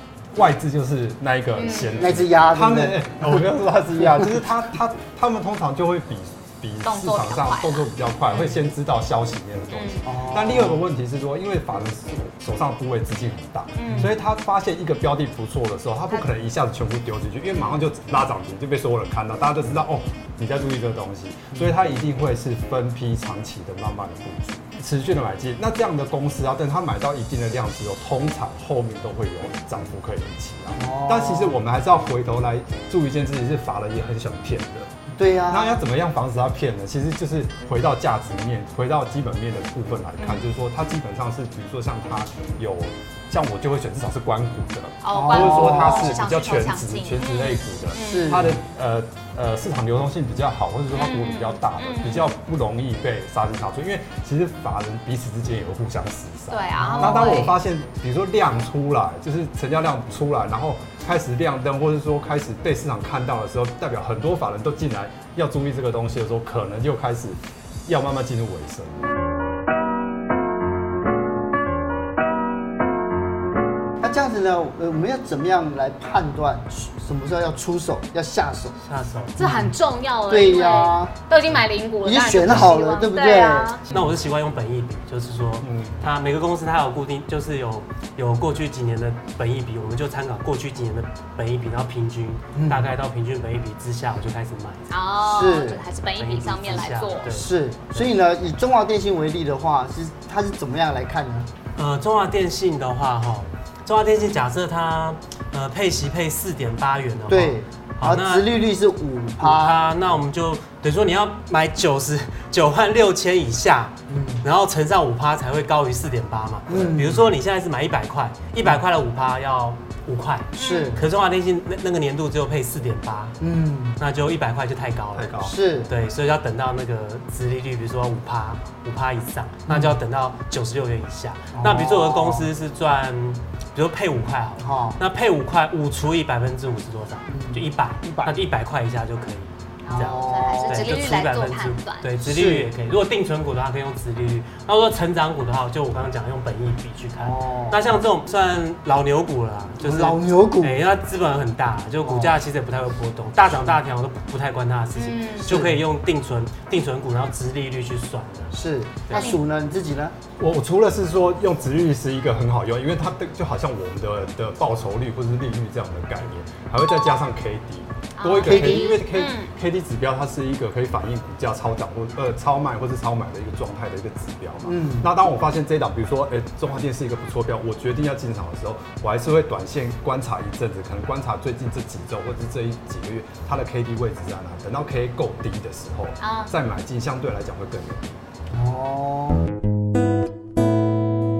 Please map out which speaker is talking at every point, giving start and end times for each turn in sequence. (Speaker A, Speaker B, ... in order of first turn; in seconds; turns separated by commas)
Speaker A: 0.3-34.9, Speaker B: 1.5-2.0, Speaker C: 2.0-3.4, Speaker C: 4.0-4.3, Speaker B: 6.8-8.6, Speaker B: 9.7-10.0, Speaker C: 10.0-10.8, Speaker B: 13.8-14.1, Speaker C: 30.8-31.6, Speaker C: 35.1-35.8, Speaker A: 35.5-69.0, Speaker B: 40.2-40.5, Speaker B: 45.0-48.5, Speaker C: 45.1-46.2, Speaker C: 48.0-48.6, Speaker B: 50.9-52.3, Speaker B: 56.5-57.5, Speaker C: 56.8-57.5, Speaker C: 74.0-78.8, Speaker D: 78.8-79.4, Speaker B: 79.4-83.8, Speaker C: 79.4-79.7, Speaker C: 80.3-81.1, Speaker C: 82.0-83.8, Speaker D: 83.9-94.9, Speaker A: 85.6-86.0, Speaker C: 92.5-92.9, Speaker B: 94.9-97.3, Speaker C: 95.2-95.8, Speaker D: 96.2-98.1, Speaker C: 97.3-101.5, Speaker D: 101.8-108.5, Speaker C: 107.3-109.8, Speaker D: 109.4-123.4, Speaker C: 114.1-114.4, Speaker C: 116.7-117.3, Speaker B: 120.5-121.0, Speaker C: 120.6-121.0, Speaker C: 123.4-124.0, Speaker D: 124.0-158.6, Speaker A: 125.1-125.5, Speaker C: 125.4-125.9, Speaker C: 129.7-130.0, Speaker C: 131.5-132.5, Speaker C: 134.6-135.0, Speaker C: 137.3-138.3, Speaker B: 139.8-142.1, Speaker C: 139.9-140.9, Speaker C: 142.2-142.7, Speaker C: 147.2-147.8, Speaker C: 149.8-150.8, Speaker C: 152.0-152.4, Speaker B: 154.9-155.5, Speaker C: 155.4-155.8, Speaker C: 158.5-160.1, Speaker D: 159.1-159.3, Speaker B: 159.1-159.4, Speaker A: 160.4-188.2, Speaker B: 168.2-169.5, Speaker C: 168.4-169.0, Speaker C: 174.6-175.1, Speaker B: 186.2-186.5, Speaker C: 188.5-189.4